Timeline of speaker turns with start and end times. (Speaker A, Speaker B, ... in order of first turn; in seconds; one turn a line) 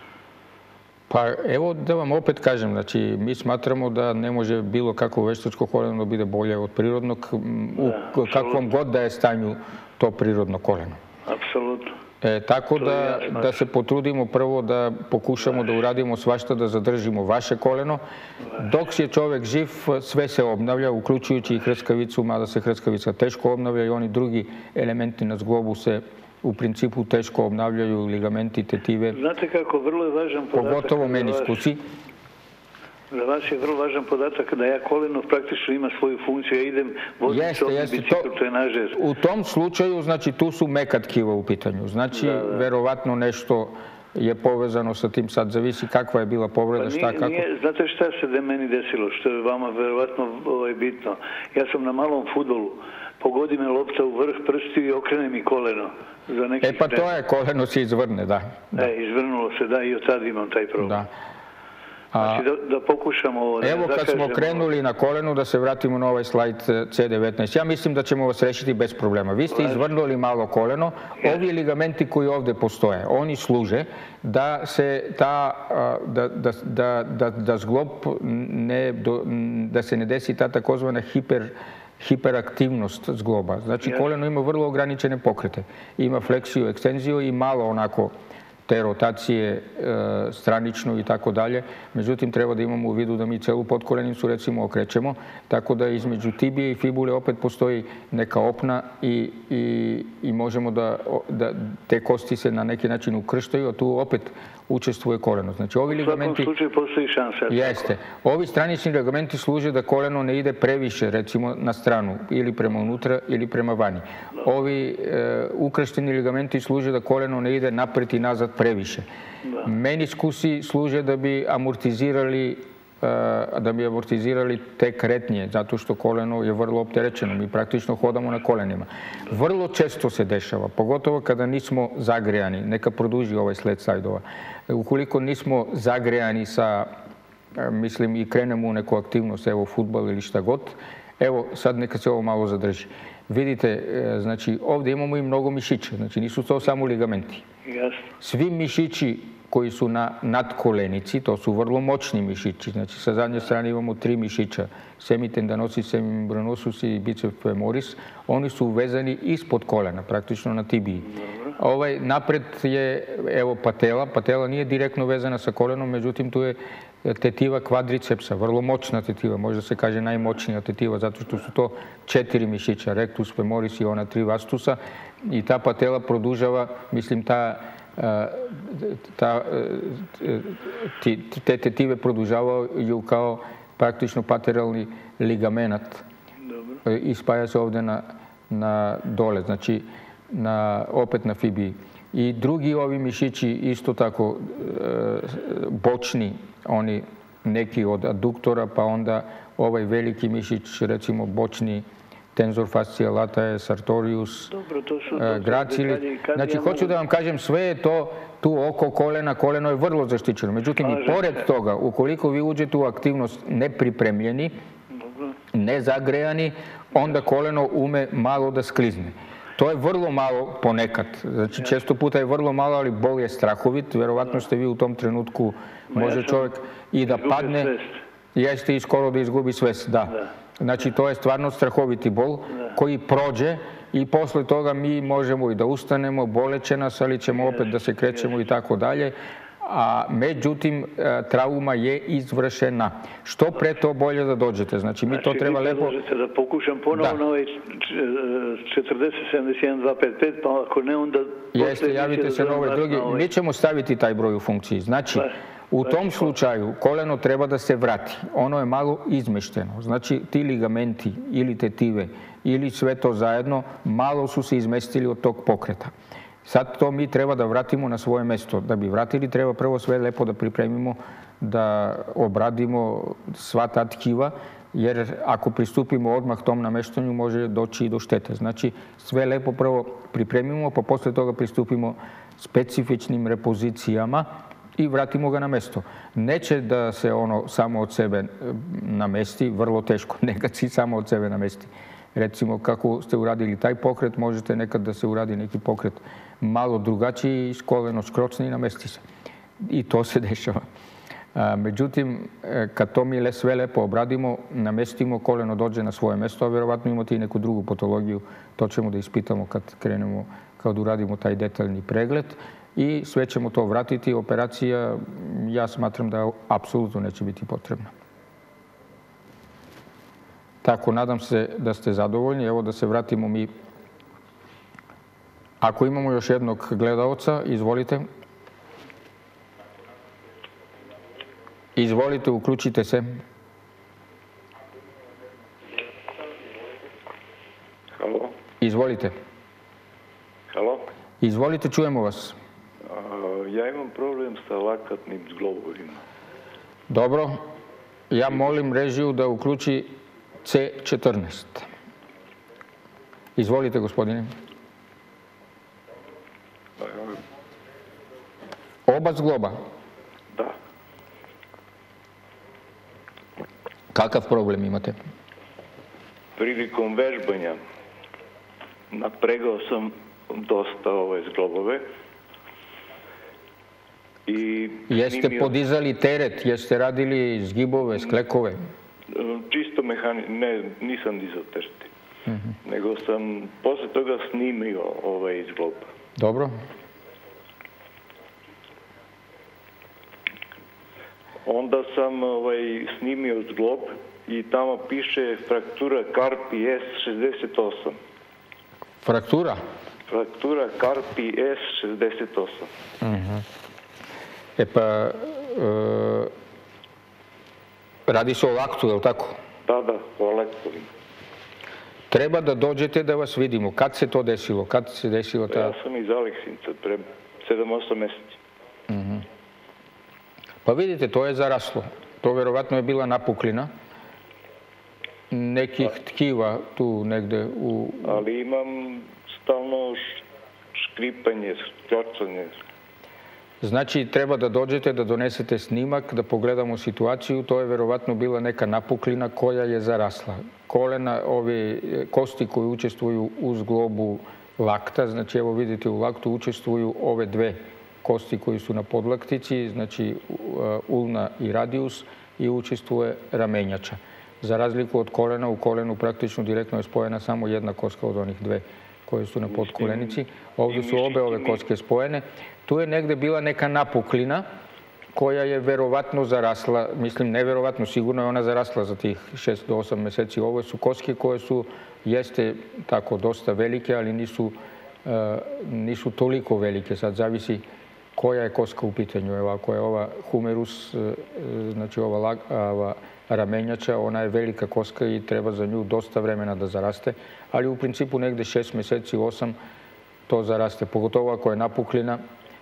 Speaker A: 1.1-11.0
Speaker B: 7.8-8.6
Speaker B: 11.3-12.0
Speaker A: 12.2-18.0
Speaker B: 12.8-13.6
Speaker A: 18.5-29.2
Speaker B: 29.1-31.6
Speaker A: 30.5-31.8
Speaker B: 33.1-39.0
Speaker A: 37.3-38.3
Speaker A: 38.9-47.5
Speaker B: 42.1-42.7
Speaker B: 46.8-57.1
Speaker A: 56.6-58.9
Speaker B: 58.7-61.0
Speaker A: 60.8-61.1
Speaker A: 62.1-62.5
Speaker B: 62.2-64.7
Speaker A: 63.6-88.1
Speaker B: 69.6-69.9
Speaker A: 88.7-106.5
Speaker B: 105.9-107.9
Speaker A: 107.5-119.1
Speaker A: 119.6-136.9
Speaker A: 137.5-147.4
Speaker B: 147.7-148.1
Speaker A: 148.2-186.1
Speaker B: 186.5-186.8
Speaker A: 186.8-204.5
Speaker B: 204.5-207.0
Speaker A: 205.1-214.5
Speaker B: 210.8-211.5
Speaker B: 214.9-215.3
Speaker A: 215.5-227.7
Speaker B: 225.9-226.5
Speaker B: 227.1-228.0
Speaker A: 228.3-246.0
Speaker B: 245.1-253.3
Speaker A: 246.9-247.2
Speaker A: 251.5-265.9
Speaker A: 266.4-299.0
Speaker A: 299.6-300.6
Speaker A: 301.4-317.9
Speaker A: 320.6-323.5
Speaker A: 325.6-328.1
Speaker A: 331.8-333.2
Speaker C: 338.0-338.4
Speaker A: 338.6-339.1
Speaker C: 340.5-340.9
Speaker A: 341.2-342.4
Speaker C: 342.9-346.0
Speaker A: 346.9-347.4
Speaker A: 348.1-351.7
Speaker A: 353.4-354.3
Speaker C: 356.8-357.2
Speaker A: 358.9-359.6
Speaker A: 363.9-365.0
Speaker C: 366.4-367.6
Speaker C: 368.9-371.9
Speaker C: 374.3-375.6
Speaker A: 374.9-378.6
Speaker C: 379.1-381.9
Speaker C: 382.6-385.9
Speaker A: 386.2-386.6
Speaker C: 391.4-398.0
Speaker A: 399.0-399.6
Speaker C: 400.1-402.7
Speaker A: 403.0-403.4
Speaker A: 404.6-406.3
Speaker A: 408.1-409.4
Speaker C: 409.7-410.9
Speaker A: 412.1-415.8
Speaker C: 415.5-418.4
Speaker A: 418.9-419.2
Speaker A: 420.6-423.7
Speaker A: 425.3-428.2
Speaker C: 428.0-430.2
Speaker C: 430.8-432.6
Speaker A: 433.6-464.5
Speaker C: 459.5-461.6
Speaker A: 465.1-477.6
Speaker A: 478.2-489.6
Speaker A: 490.3-492.2